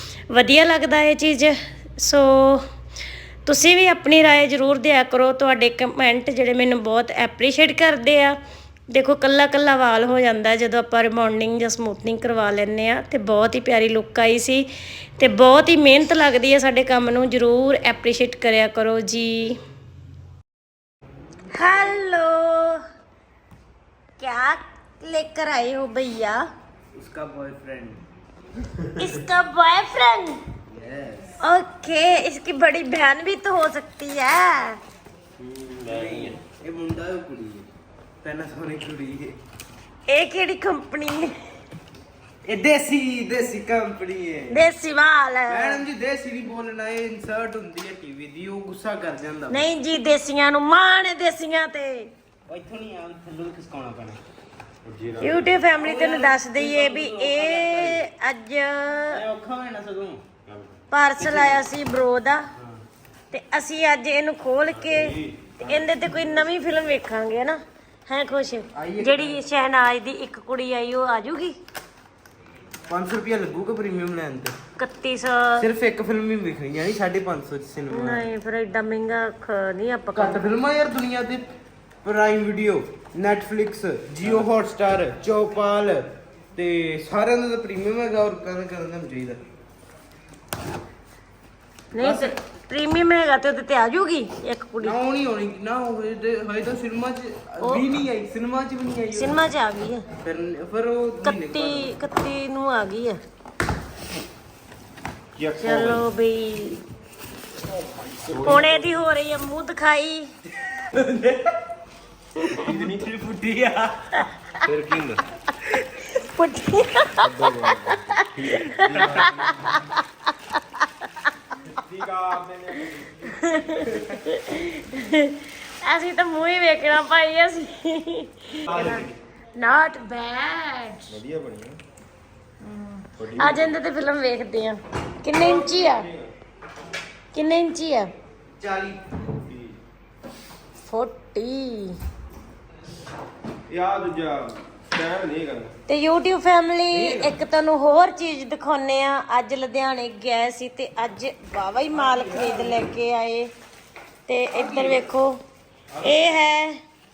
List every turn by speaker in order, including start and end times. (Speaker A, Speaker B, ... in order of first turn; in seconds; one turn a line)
Speaker A: 0.3-2.6
Speaker A: 3.5-8.4
Speaker A: 8.9-14.7
Speaker A: 15.2-19.6
Speaker A: 21.6-22.8
Speaker A: 24.2-26.5
Speaker B: 26.9-28.0
Speaker A: 29.0-30.4
Speaker B: 30.7-31.4
Speaker A: 31.4-34.8
Speaker C: 35.4-36.4
Speaker B: 35.9-37.7
Speaker B: 38.2-39.3
Speaker A: 40.1-41.3
Speaker B: 42.5-44.7
Speaker A: 44.5-45.9
Speaker B: 45.5-49.7
Speaker A: 49.5-52.1
Speaker B: 52.5-54.2
Speaker C: 54.9-55.6
Speaker A: 55.2-59.2
Speaker B: 55.8-58.1
Speaker B: 59.1-60.3
Speaker C: 60.5-60.8
Speaker A: 60.9-62.4
Speaker B: 61.2-61.6
Speaker B: 62.6-62.8
Speaker A: 63.3-71.6
Speaker C: 64.8-65.5
Speaker B: 68.8-69.4
Speaker B: 72.9-74.6
Speaker A: 74.8-75.7
Speaker B: 75.6-78.3
Speaker A: 77.9-80.5
Speaker B: 80.2-89.4
Speaker A: 91.9-95.0
Speaker B: 92.0-92.4
Speaker B: 94.8-99.3
Speaker A: 99.1-100.1
Speaker B: 100.2-101.9
Speaker A: 101.2-103.2
Speaker C: 105.4-106.0
Speaker A: 105.6-106.8
Speaker C: 108.2-108.9
Speaker A: 108.4-110.3
Speaker B: 110.6-111.6
Speaker C: 112.5-113.1
Speaker B: 112.5-115.2
Speaker C: 114.9-115.2
Speaker A: 116.0-121.1
Speaker C: 117.2-119.7
Speaker C: 121.7-124.0
Speaker A: 123.3-131.2
Speaker C: 128.7-129.2
Speaker C: 131.1-131.8
Speaker A: 132.6-136.1
Speaker C: 133.2-133.7
Speaker C: 135.4-136.3
Speaker A: 137.3-138.1
Speaker B: 138.6-139.0
Speaker C: 139.5-139.8
Speaker A: 140.8-142.0
Speaker C: 143.7-145.7
Speaker A: 145.9-153.5
Speaker B: 146.9-147.3
Speaker B: 151.9-152.8
Speaker A: 154.3-155.4
Speaker B: 154.5-155.0
Speaker B: 155.9-156.5
Speaker A: 156.0-156.8